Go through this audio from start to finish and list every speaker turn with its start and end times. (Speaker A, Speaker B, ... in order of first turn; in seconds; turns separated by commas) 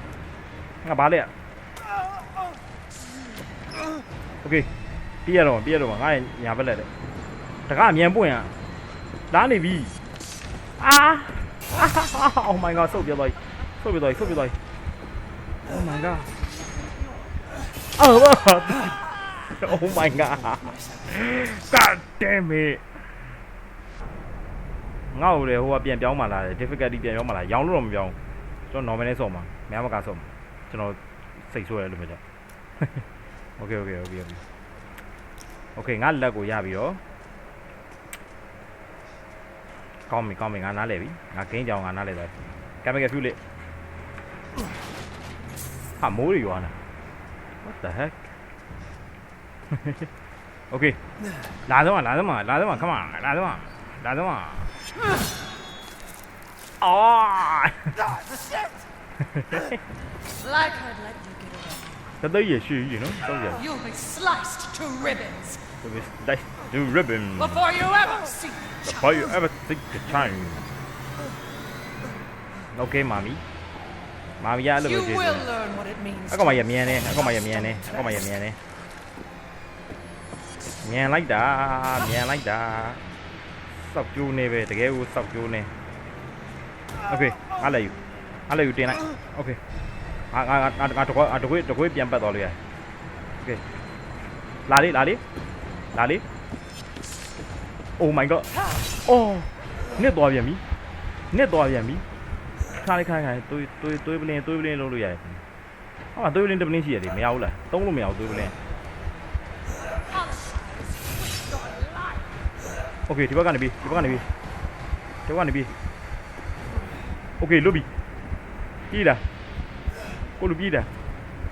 Speaker A: 0.8-1.3, Speaker A: 4.4-4.7, Speaker A: 5.2-6.9, Speaker A: 7.7-8.6, Speaker A: 9.3-9.9, Speaker A: 10.8-14.6, Speaker A: 15.7-16.3, Speaker A: 17.9-23.1, Speaker B: 20.3-21.5, Speaker A: 25.1-28.2, Speaker A: 28.7-32.2, Speaker A: 32.8-33.0, Speaker A: 33.6-34.4, Speaker A: 35.8-37.0, Speaker A: 40.1-43.4, Speaker A: 46.0-46.8, Speaker A: 47.6-48.3, Speaker A: 49.7-50.1, Speaker A: 50.7-51.0, Speaker A: 51.6-54.8, Speaker A: 56.8-58.2, Speaker A: 59.2-59.8, Speaker B: 60.4-62.0, Speaker A: 62.2-63.6, Speaker B: 63.5-65.7, Speaker A: 65.8-67.7, Speaker B: 67.4-69.4, Speaker A: 68.8-70.7, Speaker A: 72.7-73.4, Speaker A: 74.4-75.5, Speaker B: 74.8-78.2, Speaker A: 76.3-78.6, Speaker A: 80.8-83.0, Speaker A: 83.7-85.7, Speaker A: 87.1-88.0, Speaker A: 88.5-89.6, Speaker A: 90.3-92.6, Speaker A: 93.4-93.6, Speaker A: 94.7-95.2, Speaker A: 95.9-96.2, Speaker A: 98.0-98.5, Speaker A: 99.0-100.6, Speaker A: 101.3-102.0, Speaker A: 102.7-105.4, Speaker A: 106.1-108.5, Speaker B: 110.1-112.2, Speaker A: 113.1-114.3, Speaker A: 115.2-115.7, Speaker A: 117.4-117.9, Speaker A: 118.9-119.2, Speaker A: 120.4-120.9